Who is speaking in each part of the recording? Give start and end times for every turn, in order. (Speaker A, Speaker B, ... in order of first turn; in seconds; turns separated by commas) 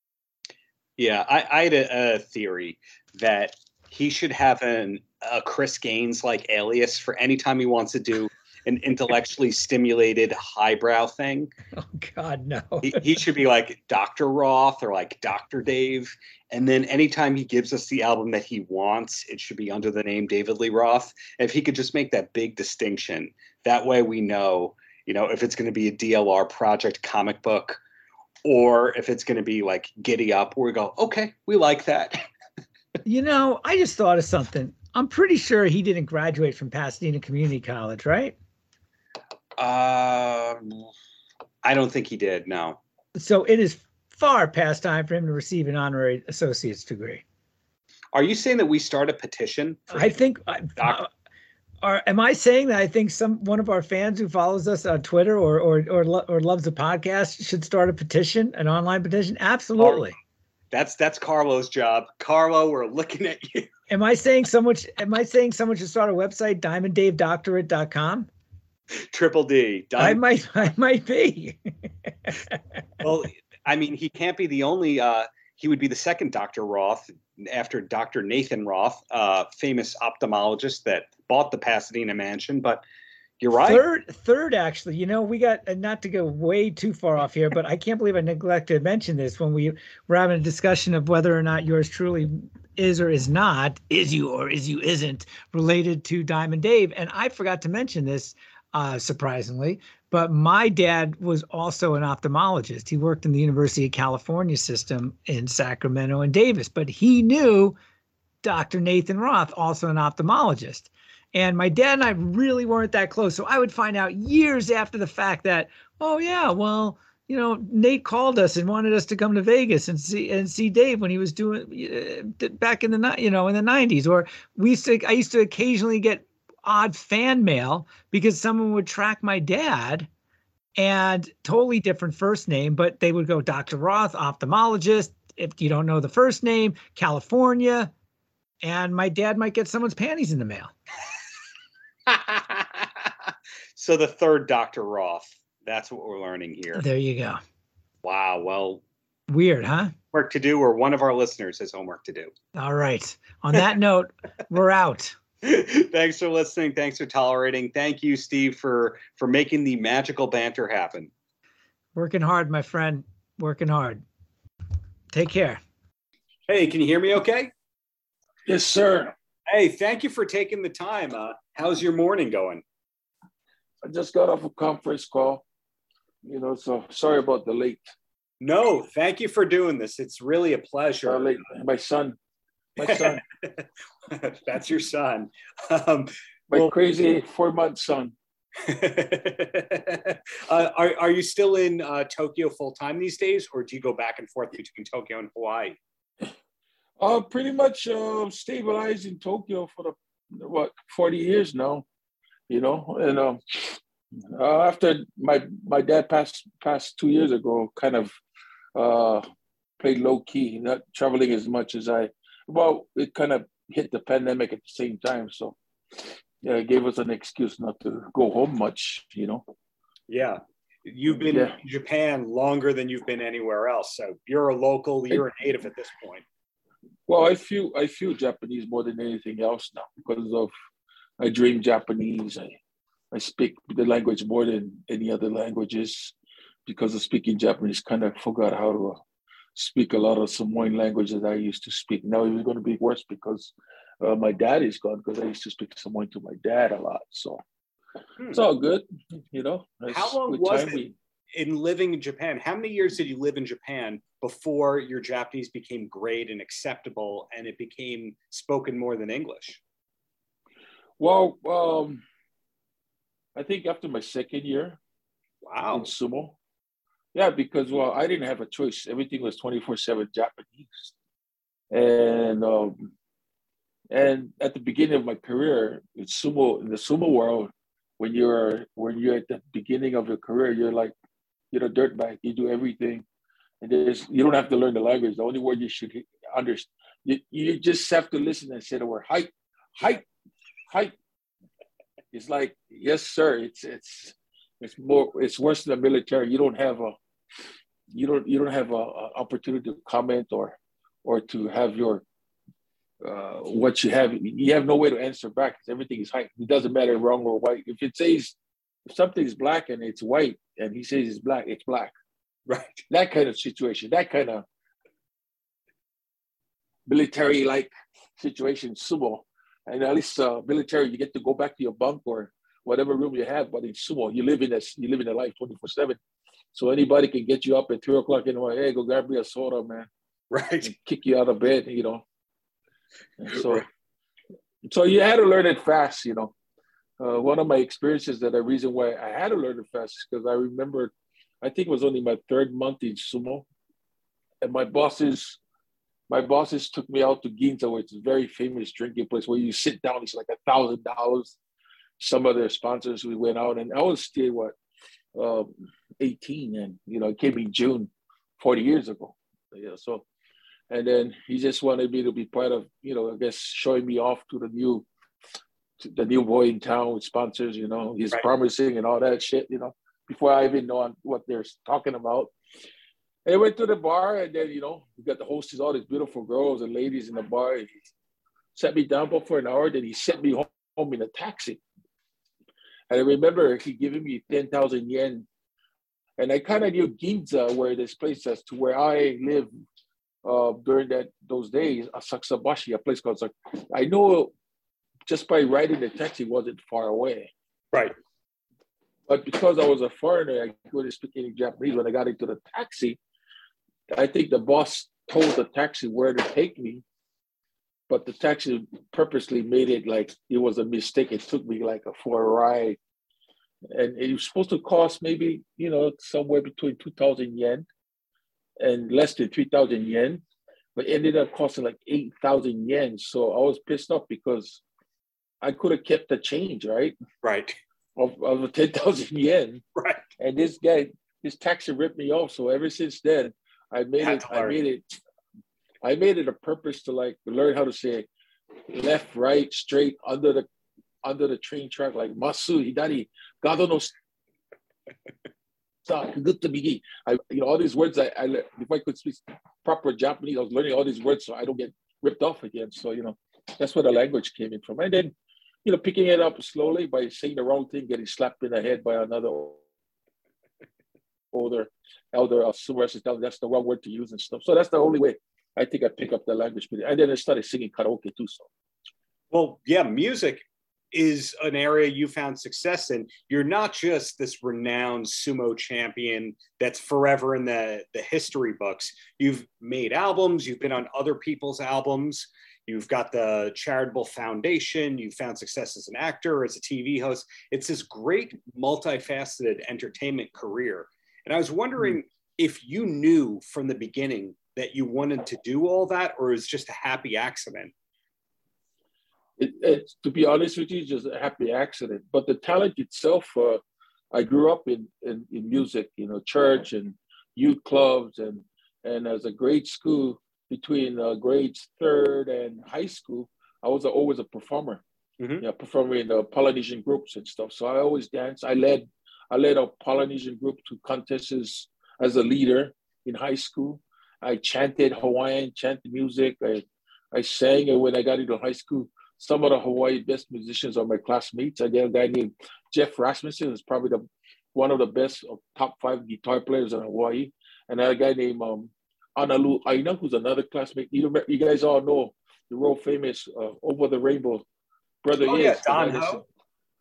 Speaker A: 1.0-11.5, Speaker B: 11.8-13.0, Speaker A: 12.8-27.8, Speaker A: 28.4-32.2, Speaker B: 33.0-38.3, Speaker A: 39.6-40.9, Speaker A: 41.6-42.8, Speaker B: 43.1-47.2, Speaker A: 48.1-50.1, Speaker B: 49.9-51.1, Speaker B: 51.8-60.2, Speaker A: 59.8-60.0, Speaker A: 60.7-63.7, Speaker B: 63.9-68.3, Speaker A: 69.0-70.2, Speaker B: 70.0-71.6, Speaker B: 72.1-72.5, Speaker A: 73.0-82.8, Speaker A: 83.4-83.8, Speaker B: 83.6-107.8, Speaker B: 108.4-130.1, Speaker B: 130.8-137.9, Speaker B: 138.6-140.7, Speaker A: 142.1-146.8, Speaker B: 146.8-147.4, Speaker A: 148.0-148.8, Speaker B: 149.3-149.9, Speaker A: 150.1-152.3, Speaker B: 152.6-155.2, Speaker A: 155.4-161.1, Speaker B: 161.9-164.0, Speaker B: 165.1-165.6, Speaker A: 166.5-167.5, Speaker C: 168.5-169.1, Speaker A: 169.5-172.6, Speaker C: 173.8-175.4, Speaker C: 176.2-177.8, Speaker A: 178.4-181.3, Speaker C: 181.1-182.2, Speaker C: 182.8-183.2, Speaker A: 182.8-186.7, Speaker C: 186.5-188.1, Speaker A: 188.6-195.8, Speaker C: 197.0-201.8, Speaker C: 202.5-203.8, Speaker C: 204.3-208.1, Speaker C: 208.8-209.2, Speaker C: 209.8-215.6, Speaker C: 216.4-219.4, Speaker A: 220.1-226.2, Speaker C: 221.2-221.6, Speaker C: 227.1-230.5, Speaker C: 231.2-232.6, Speaker C: 233.1-239.0, Speaker C: 239.6-247.4, Speaker C: 248.3-250.9, Speaker A: 249.9-250.8, Speaker A: 251.3-259.6, Speaker C: 261.0-262.0, Speaker C: 263.4-264.8, Speaker A: 265.4-265.9, Speaker C: 265.7-266.4, Speaker C: 267.1-270.9, Speaker C: 271.7-272.9, Speaker C: 273.9-280.9, Speaker C: 281.5-283.1, Speaker C: 283.6-290.1, Speaker C: 292.1-296.9, Speaker C: 297.9-302.0, Speaker C: 303.0-308.4, Speaker C: 308.9-311.9, Speaker A: 312.5-312.9, Speaker C: 312.9-314.4, Speaker C: 316.9-326.0, Speaker C: 326.5-329.9, Speaker A: 330.3-330.7, Speaker C: 330.6-332.0, Speaker C: 333.2-333.7, Speaker A: 333.3-333.6, Speaker C: 334.6-336.3, Speaker C: 337.0-340.9, Speaker C: 341.4-343.4, Speaker C: 344.4-345.4, Speaker C: 346.1-351.4, Speaker C: 352.0-354.6, Speaker C: 355.1-360.1, Speaker C: 360.7-364.9, Speaker C: 365.8-372.3, Speaker C: 373.3-377.7, Speaker C: 378.6-381.6, Speaker C: 382.9-385.3, Speaker C: 386.2-389.5, Speaker C: 390.2-394.3, Speaker C: 395.1-397.3, Speaker C: 399.1-403.0, Speaker C: 403.9-406.8, Speaker C: 407.9-412.8, Speaker C: 413.7-417.7, Speaker C: 418.6-420.2, Speaker C: 420.8-424.6, Speaker C: 425.4-427.0, Speaker A: 427.2-427.6, Speaker C: 428.0-429.6, Speaker A: 429.8-430.0, Speaker C: 430.2-434.8, Speaker A: 434.0-434.6, Speaker C: 435.8-438.1, Speaker C: 438.7-440.5, Speaker C: 441.0-443.9, Speaker C: 445.9-455.1, Speaker C: 455.6-459.6, Speaker C: 461.3-468.5, Speaker A: 469.3-497.7, Speaker C: 499.4-503.6, Speaker C: 504.1-514.8, Speaker A: 515.2-515.4, Speaker C: 515.4-544.4, Speaker C: 545.0-546.2, Speaker A: 545.2-546.2